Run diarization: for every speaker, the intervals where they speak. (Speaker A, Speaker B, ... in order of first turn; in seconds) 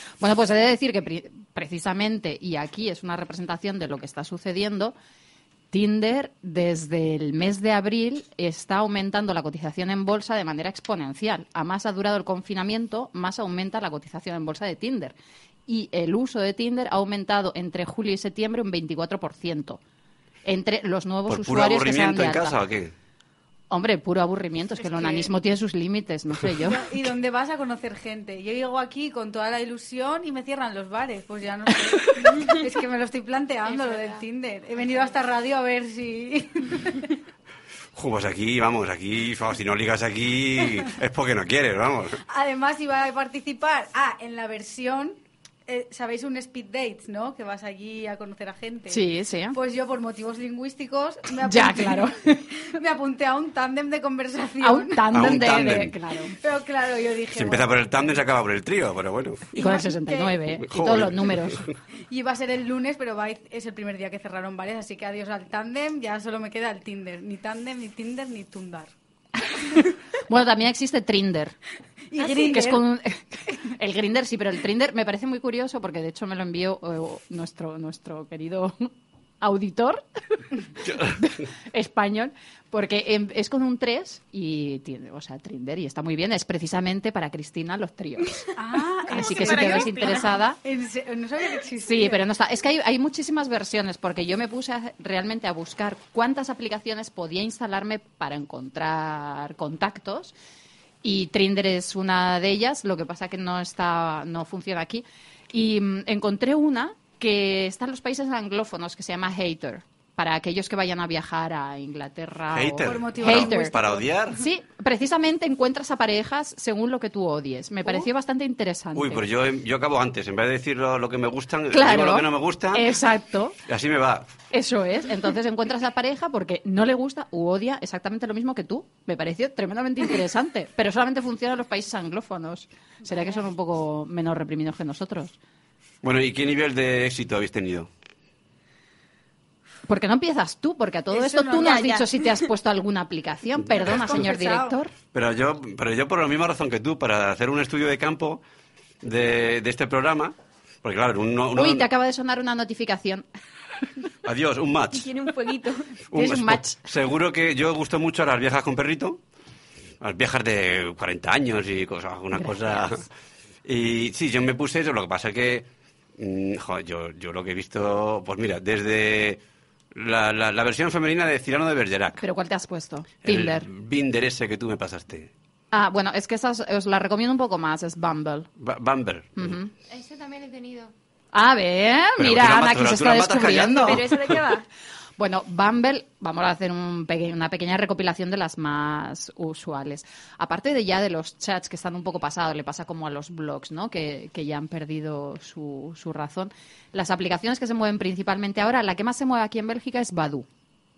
Speaker A: 0.2-4.9, 5.7-15.1, 15.7-19.8, 20.4-22.5, 23.7-26.9, 48.9-49.6, 51.4-52.4, 54.6-56.3, 59.5-61.7, 69.5-71.5, 72.2-80.0, 80.8-88.4, 89.1-90.6, 91.8-100.3, 101.0-113.7, 114.3-119.2, 121.7-123.5, 124.5-135.3, 139.9-144.9, 151.5-153.2, 156.1-156.8, 162.3-162.8, 172.2-173.7, 175.7-178.5, 179.3-179.7, 181.3-184.0, 185.2-200.4
Speaker B: 21.3-22.9, 37.9-42.2, 55.1-55.9, 57.3-59.5, 60.6-61.7, 80.8-81.2, 112.5-114.4, 118.9-122.9, 123.7-124.3, 136.0-137.9, 145.1-148.4, 149.0-151.9, 154.2-155.1, 156.1-159.2, 160.0-163.1, 163.6-169.4, 169.9-172.2, 173.2-175.3, 178.6-179.6, 182.2-184.4
Speaker C: 24.8-25.3, 26.6-37.2, 42.3-49.0, 49.5-55.0, 56.4-57.7, 59.6-59.8, 62.1-68.9, 72.1-72.8, 88.6-92.2, 112.8-114.1, 141.2-141.8, 143.7-144.7
Speaker D: 33.7-34.2, 34.8-35.1, 179.9-180.9
Speaker E: 89.1-90.3, 141.2-142.3, 154.9-155.9, 183.8-184.7